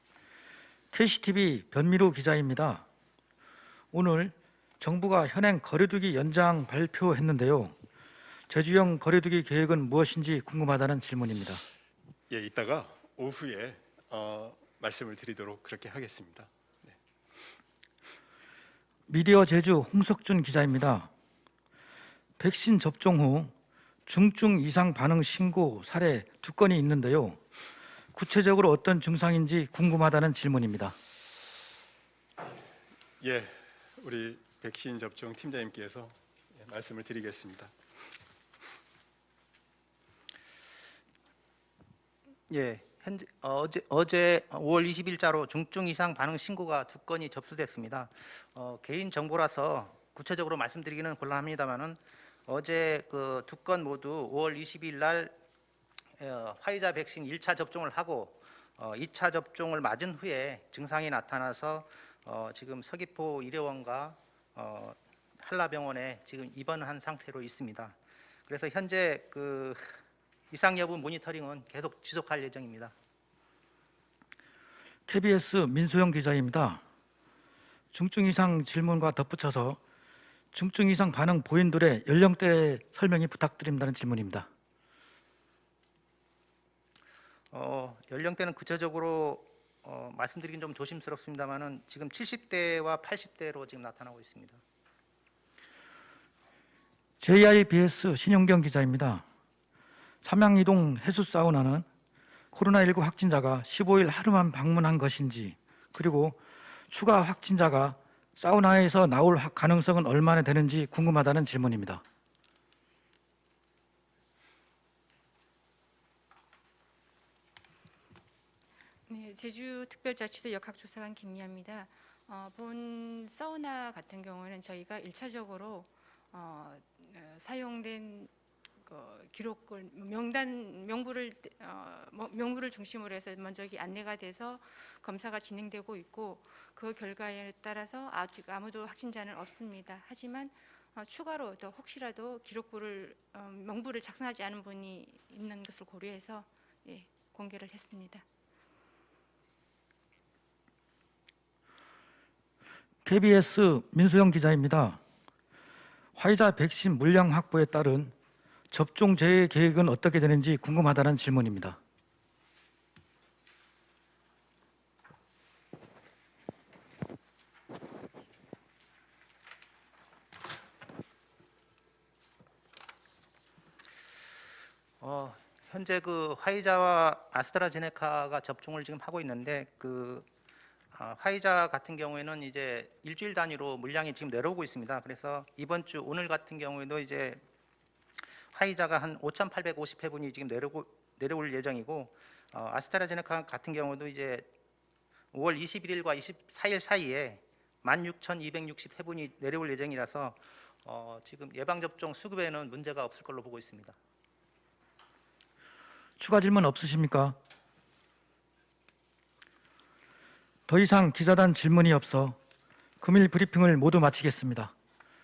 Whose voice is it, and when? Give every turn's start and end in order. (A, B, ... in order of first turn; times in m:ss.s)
0:00.9-0:02.8 A
0:03.9-0:07.8 A
0:08.5-0:11.6 A
0:12.3-0:16.9 B
0:19.1-0:21.1 A
0:22.4-0:23.5 A
0:24.1-0:27.4 A
0:28.1-0:31.0 A
0:33.2-0:37.7 B
0:42.5-0:55.4 C
0:56.2-1:08.0 C
1:08.5-1:10.0 C
1:10.5-1:12.9 C
1:15.1-1:16.8 A
1:17.9-1:19.8 A
1:20.5-1:24.5 A
1:27.5-1:34.6 C
1:37.2-1:39.2 A
1:40.2-1:41.8 A
1:42.5-1:46.4 A
1:46.9-1:52.0 A
1:59.1-2:08.3 D
2:08.8-2:28.2 D
2:33.0-2:35.0 A
2:36.2-2:38.1 A
2:38.7-2:41.8 A
2:55.0-3:00.3 C
3:00.9-3:07.4 C
3:08.5-3:14.5 C
3:15.3-3:24.0 C
3:26.2-3:27.4 A
3:30.7-3:32.4 A
3:33.0-3:34.7 A